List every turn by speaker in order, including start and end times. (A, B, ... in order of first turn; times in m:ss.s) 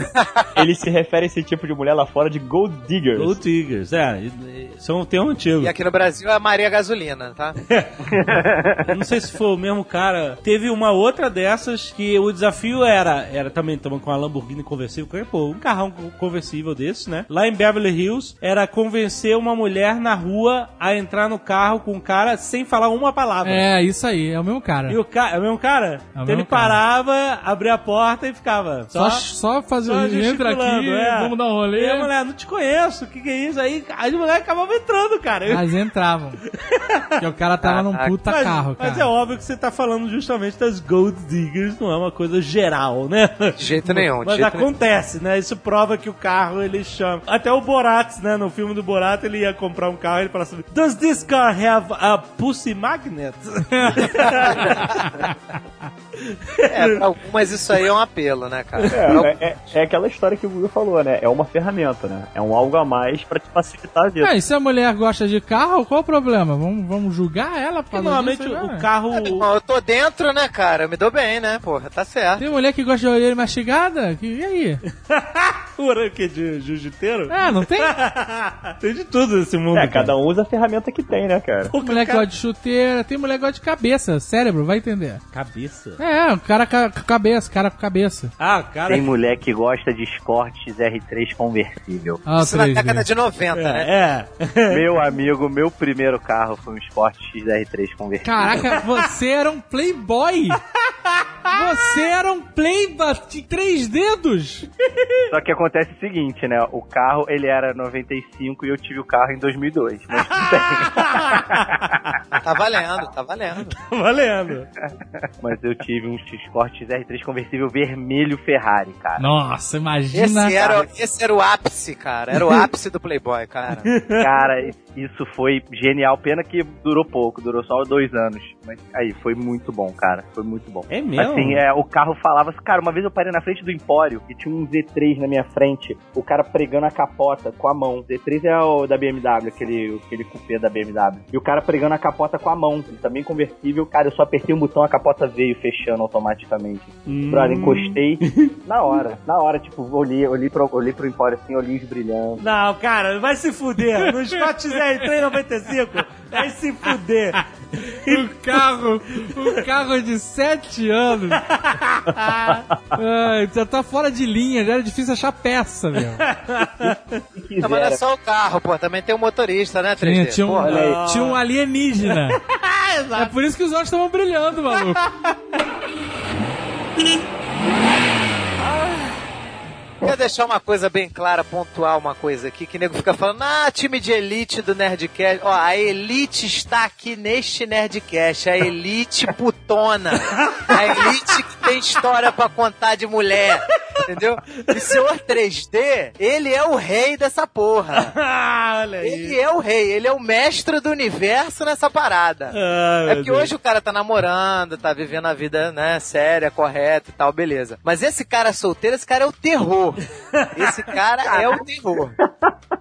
0:00.5-0:03.4 A
0:03.2-0:05.7 B
0:05.6-0:07.6 C
0:07.7-0:23.7 B
0:08.1-0:09.0 D
0:23.4-0:25.0 E
0:24.9-0:29.3 B
0:26.2-0:26.8 E
0:28.9-0:32.1 E
0:29.8-0:35.8 B
0:35.5-0:36.4 E
0:36.5-0:37.2 B
0:37.2-0:39.1 E
0:37.6-0:38.1 C
0:38.2-0:55.3 B
0:43.6-0:44.7 C
0:53.7-0:54.3 E
0:56.2-0:57.1 B
0:56.7-0:59.4 C
0:58.8-0:59.2 B
0:58.9-1:04.3 A
1:04.2-1:08.9 E
1:07.9-1:09.5 B
1:09.1-1:12.4 C
1:12.4-1:14.8 E
1:15.0-1:20.1 B
1:17.3-1:18.0 E
1:19.7-1:21.7 A
1:21.7-1:22.3 B
1:21.8-1:25.2 E
1:25.3-1:26.0 B
1:26.0-1:28.3 E
1:28.4-1:29.1 B
1:28.9-1:32.3 D
1:32.3-1:33.1 E
1:32.3-1:33.9 C
1:33.5-1:35.1 B
1:34.7-1:38.4 D
1:38.2-1:40.6 E
1:40.9-1:41.6 B
1:41.5-1:44.7 E
1:45.3-1:52.0 D
1:50.5-1:51.9 B
1:52.4-1:53.7 C
1:53.7-1:54.7 B
1:55.4-1:59.2 D
1:59.2-2:00.6 E
2:00.1-2:04.0 C
2:03.9-2:04.3 B
2:04.2-2:32.4 D
2:10.9-2:11.6 B
2:27.1-2:28.6 B
2:32.4-2:38.6 B
2:38.0-2:41.4 E
2:41.3-2:42.7 B
2:42.9-2:46.3 E
2:46.2-2:47.2 B
2:47.3-2:48.0 D
2:47.6-2:50.8 C
2:50.0-2:52.4 E
2:50.6-2:51.0 D
2:50.6-2:51.4 B
2:52.0-2:53.4 B
2:53.2-2:55.0 E
2:54.7-2:55.4 B
3:00.0-3:18.1 C
3:10.3-3:11.1 B
3:14.7-3:15.0 B
3:17.9-3:19.4 B
3:19.0-3:22.5 C
3:22.5-3:23.5 B
3:23.0-3:30.0 C
3:30.3-3:30.8 B
3:30.6-3:32.1 C
3:31.3-3:31.6 D